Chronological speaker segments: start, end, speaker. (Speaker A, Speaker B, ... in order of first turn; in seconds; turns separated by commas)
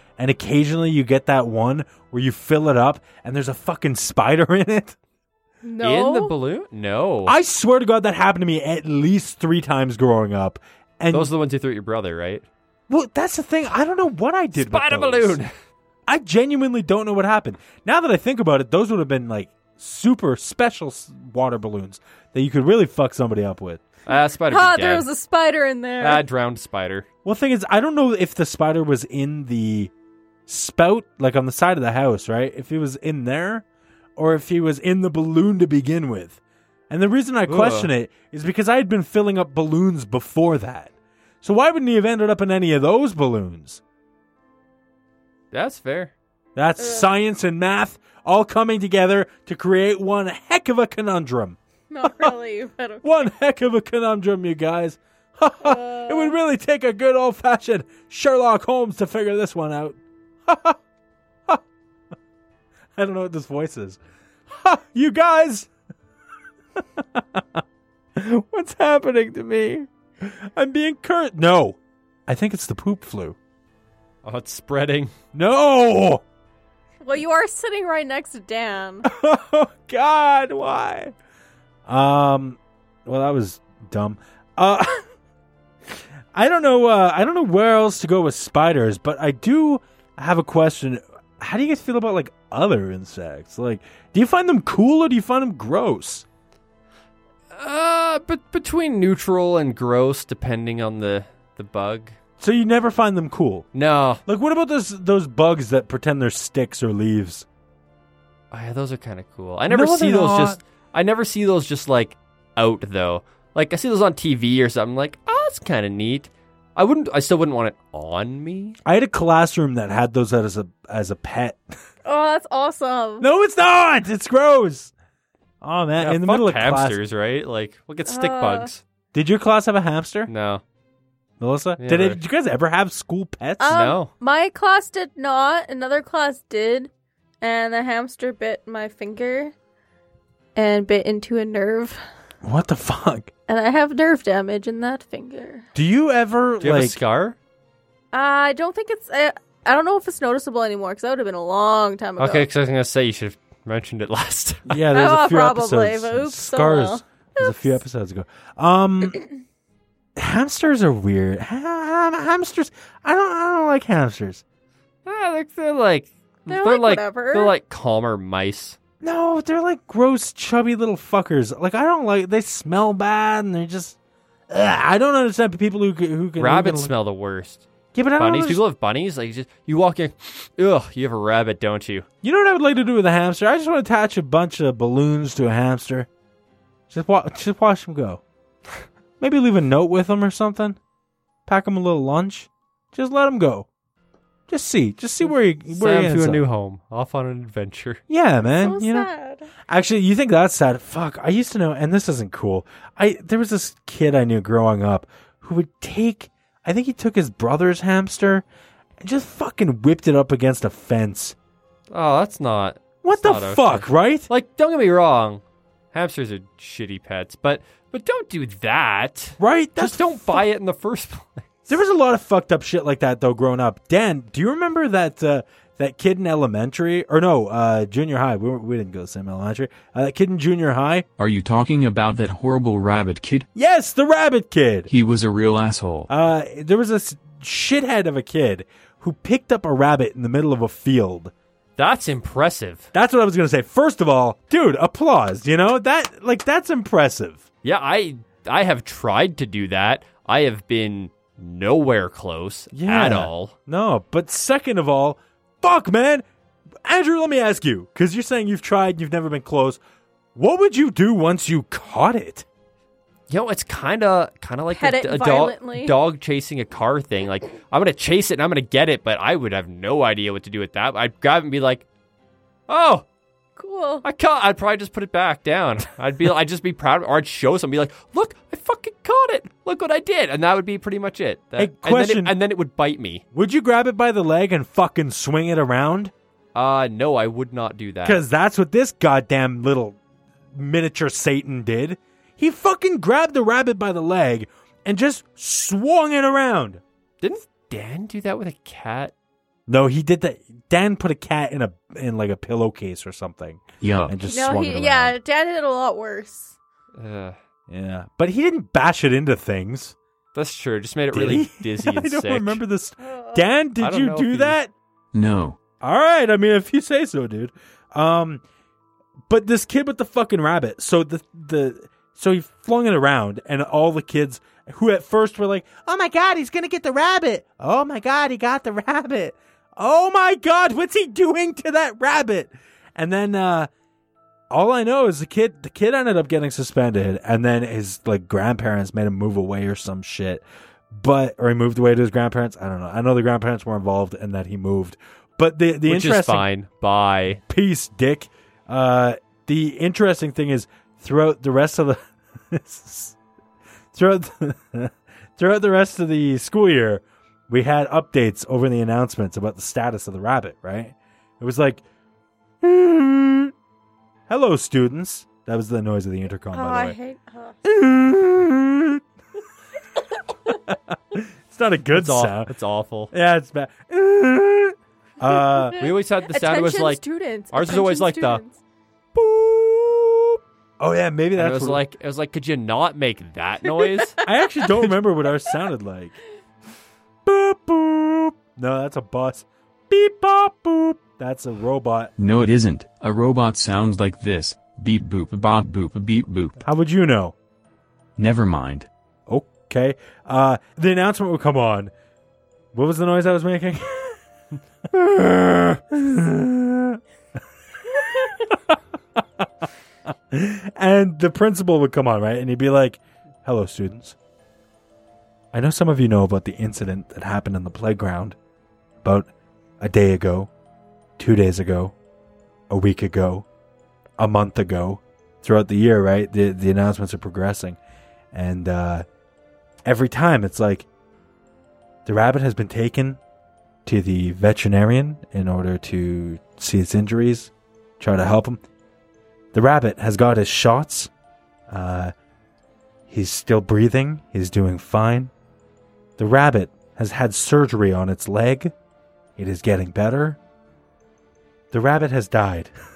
Speaker A: 0.2-5.0, Speaker B: 5.6-6.3, Speaker C: 5.8-7.3, Speaker A: 7.2-11.3, Speaker C: 11.1-12.4, Speaker A: 12.9-15.4, Speaker C: 14.5-15.5, Speaker A: 16.1-23.8, Speaker C: 24.1-25.1, Speaker B: 24.5-26.2, Speaker C: 26.0-27.1, Speaker A: 27.2-29.9, Speaker A: 30.5-33.6, Speaker A: 34.1-36.4, Speaker A: 36.9-43.8, Speaker C: 37.5-37.9, Speaker C: 45.5-46.1, Speaker A: 46.5-52.3, Speaker B: 46.8-47.1, Speaker B: 51.9-53.1, Speaker A: 53.0-60.8, Speaker B: 55.6-56.3, Speaker A: 63.0-65.7, Speaker A: 66.8-67.6, Speaker A: 68.2-73.4, Speaker C: 74.2-75.1, Speaker A: 75.3-76.2, Speaker B: 77.0-79.0, Speaker A: 79.0-81.1, Speaker A: 81.9-85.0, Speaker A: 86.3-96.2, Speaker C: 97.5-102.2, Speaker A: 102.4-103.7, Speaker C: 103.7-104.2, Speaker A: 104.2-107.5, Speaker C: 108.5-118.8, Speaker A: 109.7-110.6, Speaker A: 118.8-121.6, Speaker B: 122.0-123.3, Speaker A: 123.2-124.9, Speaker A: 125.6-127.0, Speaker C: 126.0-128.8, Speaker B: 128.1-128.7, Speaker A: 129.1-130.3, Speaker C: 130.3-130.6, Speaker A: 131.4-133.8, Speaker C: 131.8-132.2, Speaker B: 133.6-136.9, Speaker C: 133.7-134.1, Speaker B: 137.4-139.5, Speaker B: 140.6-142.0, Speaker A: 142.4-143.3, Speaker B: 143.5-145.7, Speaker A: 145.7-147.0, Speaker C: 146.6-147.4, Speaker B: 148.1-152.5, Speaker C: 152.2-154.8, Speaker A: 154.7-159.2, Speaker B: 154.9-157.8, Speaker A: 160.2-164.4, Speaker C: 165.0-168.8, Speaker B: 166.5-167.5, Speaker A: 169.0-173.9, Speaker A: 174.5-176.9, Speaker C: 176.4-177.7, Speaker A: 177.9-178.6, Speaker C: 178.2-182.1, Speaker A: 182.2-186.1, Speaker A: 186.9-188.2, Speaker A: 189.2-190.8, Speaker A: 191.5-193.7, Speaker A: 194.5-196.4, Speaker C: 195.7-198.0, Speaker A: 198.1-199.1, Speaker B: 198.6-199.5, Speaker A: 199.7-208.4, Speaker A: 209.0-211.3, Speaker C: 211.9-215.4, Speaker A: 213.0-214.3, Speaker C: 215.9-221.5, Speaker A: 219.4-220.4, Speaker A: 221.7-231.1, Speaker D: 231.2-233.5, Speaker A: 233.5-234.9, Speaker D: 234.9-236.1, Speaker A: 236.1-241.3, Speaker C: 241.8-242.9, Speaker A: 242.9-247.4, Speaker C: 247.6-253.5, Speaker A: 252.7-256.2, Speaker A: 256.8-259.8, Speaker A: 260.3-262.4, Speaker C: 263.3-271.8, Speaker B: 264.7-265.9, Speaker C: 272.7-273.0, Speaker B: 273.6-274.0, Speaker C: 274.0-283.2, Speaker A: 281.6-282.3, Speaker A: 283.3-286.1, Speaker C: 286.5-288.2, Speaker A: 288.0-290.0, Speaker A: 290.5-296.8, Speaker C: 297.2-299.1, Speaker A: 299.7-305.1, Speaker D: 303.8-304.2, Speaker B: 304.3-306.5, Speaker C: 306.9-307.4, Speaker A: 307.7-309.9, Speaker C: 310.3-312.6, Speaker A: 311.1-314.7, Speaker B: 313.0-313.5, Speaker C: 313.8-314.6, Speaker D: 315.1-315.6, Speaker A: 315.8-318.4, Speaker A: 319.3-333.7, Speaker A: 334.5-346.5, Speaker C: 345.9-347.4, Speaker A: 347.5-353.1, Speaker A: 353.9-361.8, Speaker A: 362.6-363.5, Speaker A: 364.3-366.9, Speaker B: 366.5-367.6, Speaker A: 367.6-369.0, Speaker A: 370.4-372.5, Speaker C: 371.9-373.1, Speaker A: 373.1-375.8, Speaker B: 375.6-378.6, Speaker C: 375.8-378.4, Speaker C: 379.1-380.4, Speaker A: 380.8-381.8, Speaker C: 381.4-384.2, Speaker B: 383.8-384.6, Speaker A: 384.2-386.1, Speaker A: 387.2-392.1, Speaker D: 392.2-396.6, Speaker A: 396.6-397.3, Speaker D: 398.2-398.9, Speaker A: 399.3-401.9, Speaker A: 402.7-404.2, Speaker A: 404.9-407.0, Speaker A: 407.9-409.4, Speaker A: 410.3-414.1, Speaker A: 415.5-418.4, Speaker A: 419.0-419.3, Speaker A: 419.8-420.5, Speaker A: 421.2-421.9, Speaker A: 422.7-423.4, Speaker A: 424.2-427.8, Speaker A: 428.3-429.0, Speaker A: 429.9-430.9, Speaker A: 432.0-433.2, Speaker A: 433.9-438.6, Speaker A: 439.5-441.1, Speaker A: 441.7-442.1, Speaker A: 443.1-445.3, Speaker A: 446.2-448.7, Speaker A: 449.4-450.4, Speaker A: 451.7-452.7